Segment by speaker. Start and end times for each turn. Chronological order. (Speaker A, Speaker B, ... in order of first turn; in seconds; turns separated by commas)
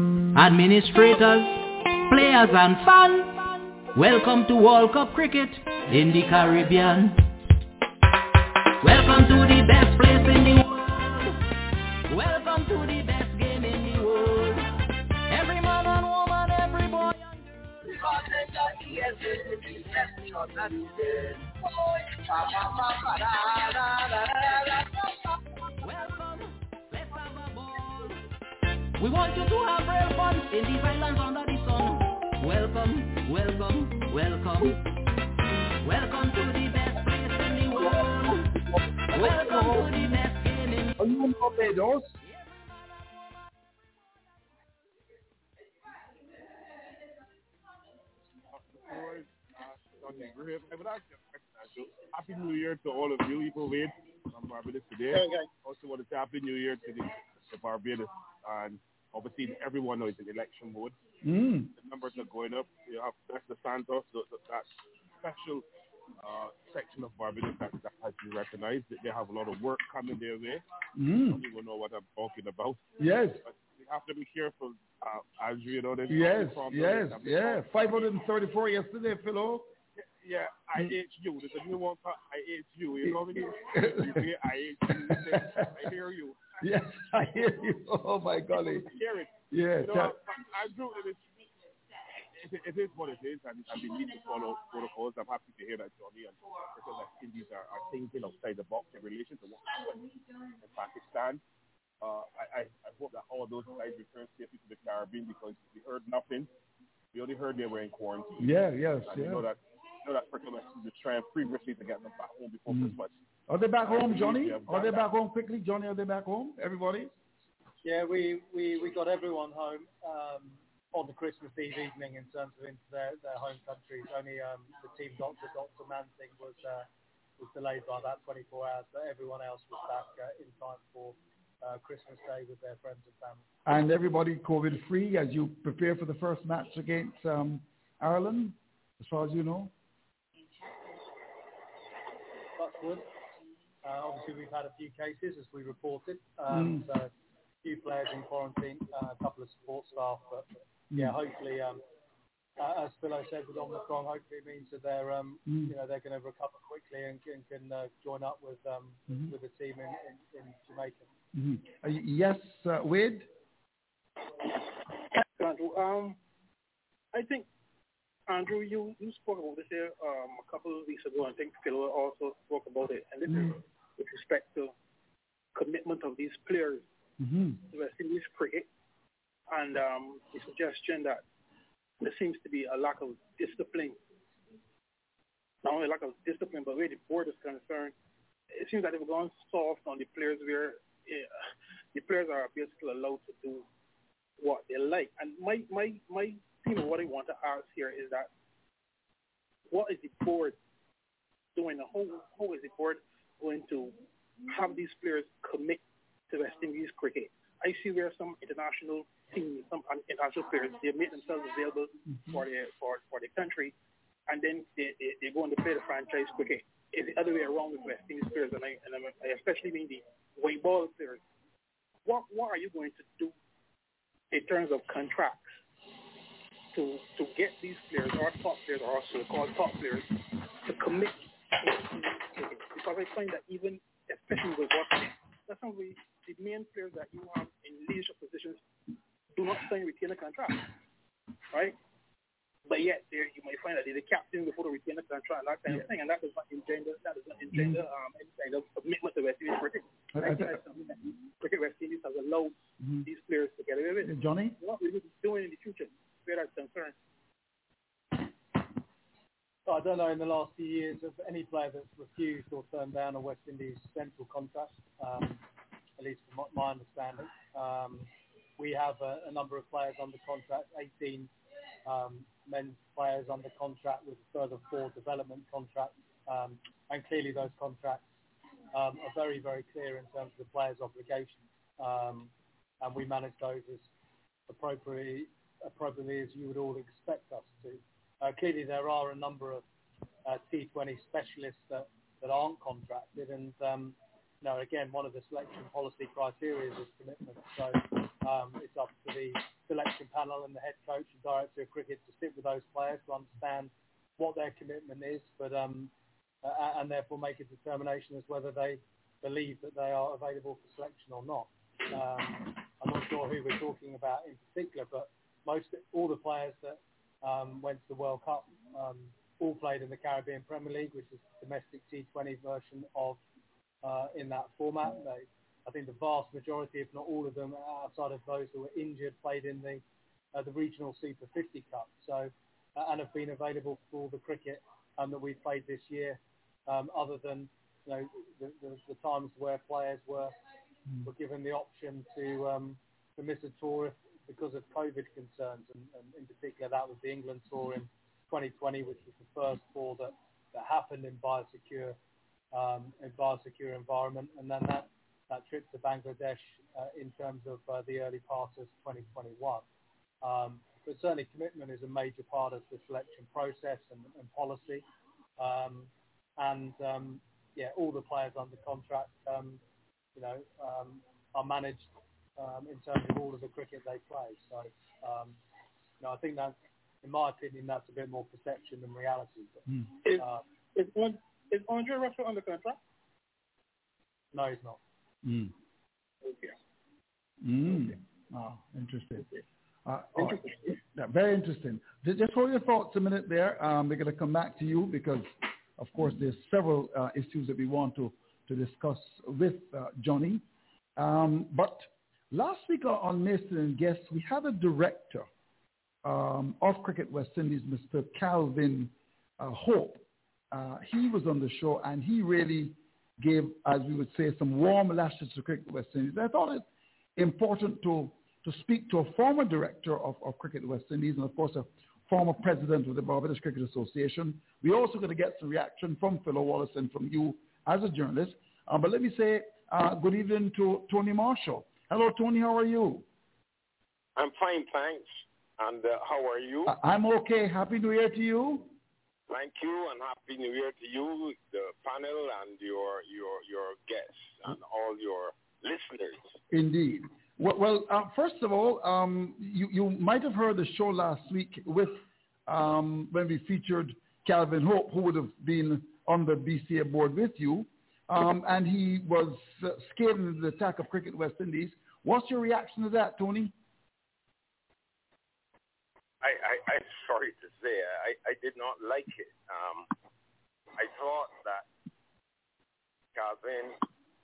Speaker A: 0.3-7.2, Speaker A: 8.8-11.4, Speaker A: 12.1-18.2, Speaker A: 18.7-19.4, Speaker A: 22.6-24.1, Speaker A: 25.8-28.1, Speaker A: 29.0-34.9, Speaker A: 35.8-38.5, Speaker A: 39.1-41.0, Speaker B: 39.1-40.0, Speaker B: 41.0-42.1, Speaker C: 48.6-61.0, Speaker D: 55.1-55.5, Speaker B: 61.2-61.7, Speaker C: 61.8-65.6, Speaker C: 66.2-70.6, Speaker B: 70.9-71.4, Speaker C: 71.3-77.6, Speaker B: 73.0-73.4, Speaker B: 76.1-79.7, Speaker C: 80.0-86.6, Speaker B: 83.0-84.2, Speaker B: 84.9-85.7, Speaker B: 86.6-88.9, Speaker C: 88.8-91.2, Speaker B: 89.5-90.2, Speaker C: 92.3-100.1, Speaker C: 100.6-101.4, Speaker C: 102.0-106.5, Speaker C: 107.1-108.4, Speaker B: 108.4-109.5, Speaker C: 109.1-113.1, Speaker B: 112.7-112.9, Speaker B: 113.5-117.1, Speaker C: 113.8-115.0, Speaker E: 117.8-126.9, Speaker E: 127.4-133.4, Speaker B: 133.7-139.7, Speaker E: 142.6-143.1, Speaker E: 143.8-147.1, Speaker B: 146.5-146.8, Speaker E: 147.6-151.8, Speaker B: 150.9-151.2, Speaker E: 152.6-161.1, Speaker B: 155.5-155.7, Speaker B: 161.3-163.3, Speaker D: 165.2-166.2, Speaker D: 167.1-167.5, Speaker D: 168.3-174.7, Speaker D: 175.5-176.8, Speaker B: 177.2-177.6, Speaker D: 177.6-178.7, Speaker D: 179.5-181.2, Speaker D: 182.0-184.0, Speaker D: 185.6-187.9, Speaker D: 188.5-191.3, Speaker D: 191.9-193.6, Speaker D: 194.4-198.3, Speaker D: 199.7-200.6, Speaker D: 201.5-213.7, Speaker D: 214.3-221.2, Speaker D: 222.0-223.3, Speaker D: 224.3-225.5, Speaker D: 226.7-230.1, Speaker D: 230.6-238.6, Speaker D: 239.3-240.7, Speaker D: 241.5-241.8, Speaker D: 242.7-256.9, Speaker B: 247.5-247.8, Speaker B: 250.2-250.5, Speaker B: 254.0-254.6, Speaker E: 259.7-265.4, Speaker E: 266.0-271.3, Speaker E: 271.9-278.0, Speaker E: 278.7-282.3, Speaker E: 282.8-283.9, Speaker E: 284.5-289.6, Speaker E: 290.2-305.9, Speaker E: 306.4-323.2, Speaker E: 323.8-329.8, Speaker E: 330.3-340.3, Speaker E: 341.0-351.9, Speaker E: 352.5-359.6, Speaker E: 360.2-364.8, Speaker E: 365.4-369.6, Speaker E: 370.1-371.9, Speaker E: 372.4-375.4, Speaker E: 376.0-380.4, Speaker D: 380.0-382.8, Speaker E: 384.3-384.8, Speaker B: 385.2-385.5, Speaker D: 386.2-386.5, Speaker B: 387.4-389.3, Speaker B: 389.9-400.4, Speaker B: 401.0-405.2, Speaker B: 406.0-416.6, Speaker B: 417.1-433.1, Speaker F: 434.1-436.7, Speaker B: 436.6-438.7, Speaker F: 439.3-446.3, Speaker B: 446.5-463.5, Speaker F: 466.2-469.9, Speaker F: 470.8-471.6, Speaker F: 473.1-473.8